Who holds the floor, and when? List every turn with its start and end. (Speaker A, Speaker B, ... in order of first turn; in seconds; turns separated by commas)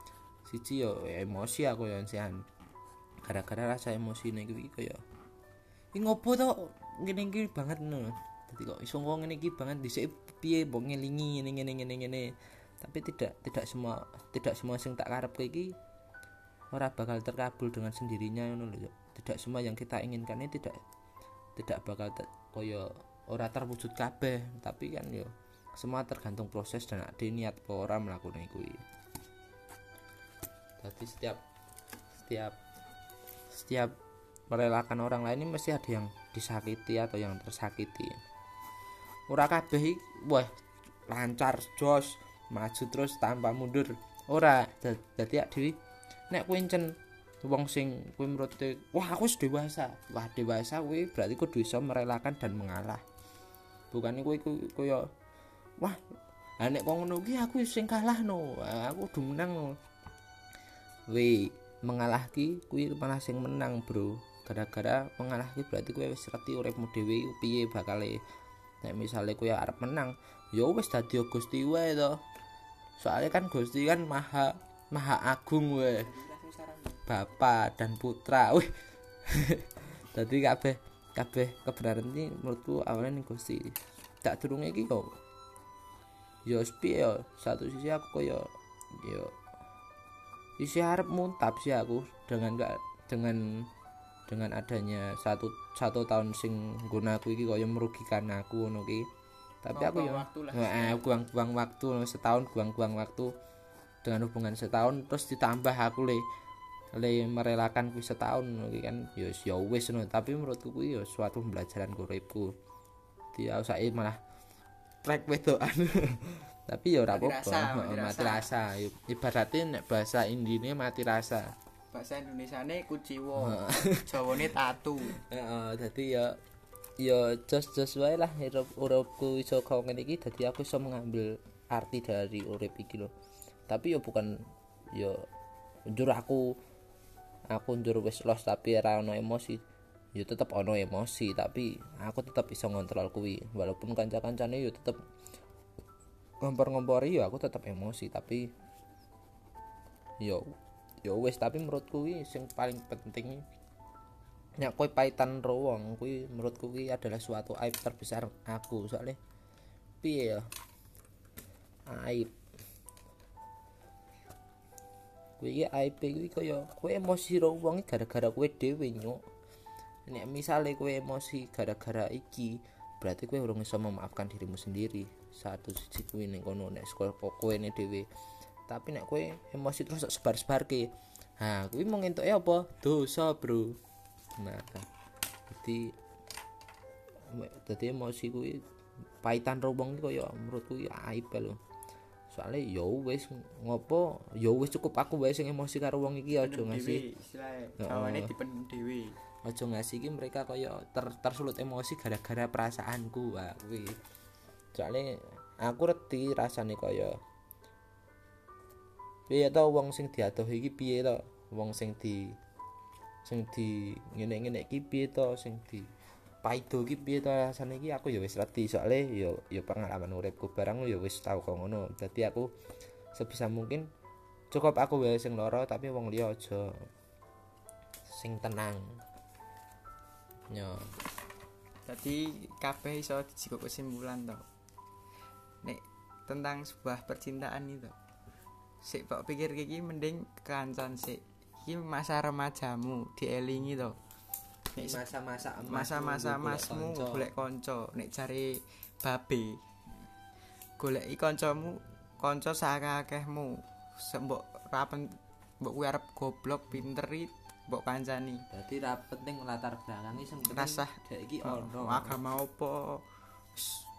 Speaker A: 0.5-2.4, Speaker A: 3.2-5.0, Speaker A: 5.9-15.7, Speaker A: 16.7-20.8, Speaker A: 21.6-28.8, Speaker A: 30.8-31.4, Speaker A: 32.2-32.6, Speaker A: 33.5-34.0, Speaker A: 34.5-38.2, Speaker A: 39.3-40.5, Speaker A: 41.1-45.7, Speaker A: 46.3-53.0, Speaker A: 53.9-55.1, Speaker A: 56.6-59.7, Speaker A: 61.1-68.2, Speaker A: 68.8-72.2, Speaker A: 73.0-76.1, Speaker B: 76.0-77.0, Speaker A: 77.1-78.7, Speaker A: 79.3-85.2, Speaker A: 86.5-89.3, Speaker A: 90.6-93.7, Speaker A: 94.3-99.1, Speaker A: 99.6-103.3, Speaker B: 99.7-101.1, Speaker A: 104.0-106.2, Speaker A: 106.9-112.5, Speaker A: 113.3-114.2, Speaker A: 115.0-121.5, Speaker B: 117.1-118.5, Speaker B: 121.9-125.1, Speaker A: 123.4-124.5, Speaker A: 125.2-126.4, Speaker A: 127.0-133.1, Speaker A: 133.7-134.3, Speaker A: 134.9-135.2, Speaker A: 135.9-136.5, Speaker A: 137.5-139.6, Speaker A: 140.2-145.0, Speaker A: 146.4-148.5, Speaker A: 151.0-153.4, Speaker A: 154.6-159.2, Speaker A: 160.0-160.5, Speaker A: 161.9-162.3, Speaker A: 165.4-169.2, Speaker A: 170.1-178.1, Speaker A: 178.7-183.8, Speaker A: 184.4-184.9, Speaker A: 185.5-185.9, Speaker A: 187.3-188.6, Speaker A: 189.2-191.6, Speaker A: 192.3-197.0, Speaker B: 196.4-199.2, Speaker A: 197.8-198.3, Speaker A: 199.4-204.0, Speaker A: 204.7-207.2, Speaker A: 209.3-212.4, Speaker A: 213.2-215.9, Speaker A: 216.4-222.5, Speaker A: 223.1-223.9, Speaker A: 224.5-226.8, Speaker A: 228.1-229.0, Speaker A: 230.5-230.9, Speaker B: 231.8-234.4, Speaker B: 235.6-237.9, Speaker B: 238.8-244.0, Speaker B: 244.7-245.1, Speaker A: 244.8-247.3, Speaker B: 245.6-249.6, Speaker B: 250.8-258.4, Speaker A: 258.5-262.2, Speaker B: 260.4-263.9